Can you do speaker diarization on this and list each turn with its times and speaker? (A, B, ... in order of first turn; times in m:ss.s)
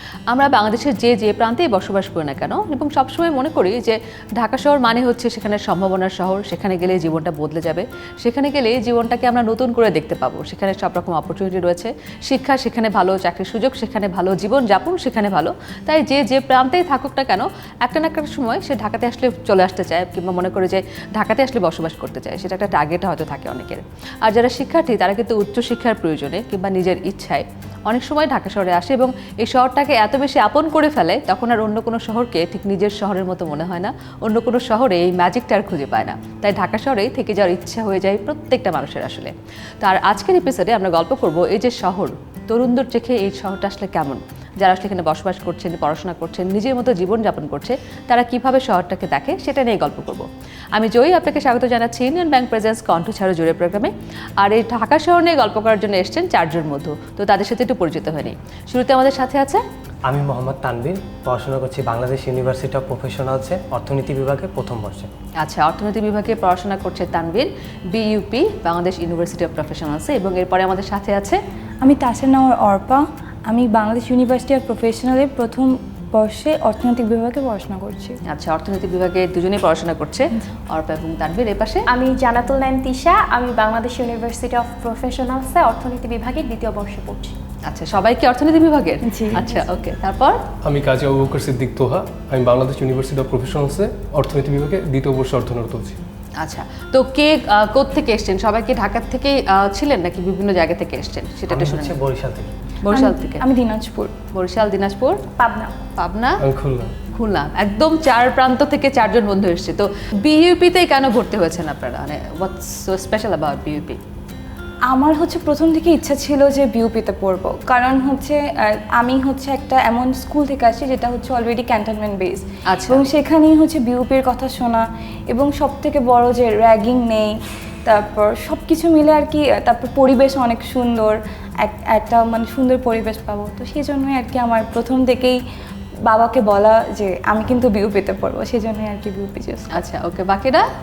0:00.3-0:59.6 A
1:00.1-1:05.1 B
1:05.4-1:11.4 A
1:11.8-1:18.2 C
1:18.3-1:21.8 A
1:21.9-1:27.4 D
1:27.7-1:30.4 A
1:29.1-1:29.4 C
1:30.6-1:36.0 E
1:36.4-1:42.0 A
1:41.5-1:42.5 B
1:42.8-1:43.4 A
1:42.9-1:44.1 C
1:44.3-1:45.2 A
1:45.4-1:45.8 D
1:46.0-1:46.4 A
1:46.4-1:46.9 E
1:47.1-1:54.0 A
1:54.9-2:07.3 C
2:02.7-2:03.0 A
2:07.8-2:15.4 C
2:16.1-2:19.7 C
2:19.7-2:20.6 A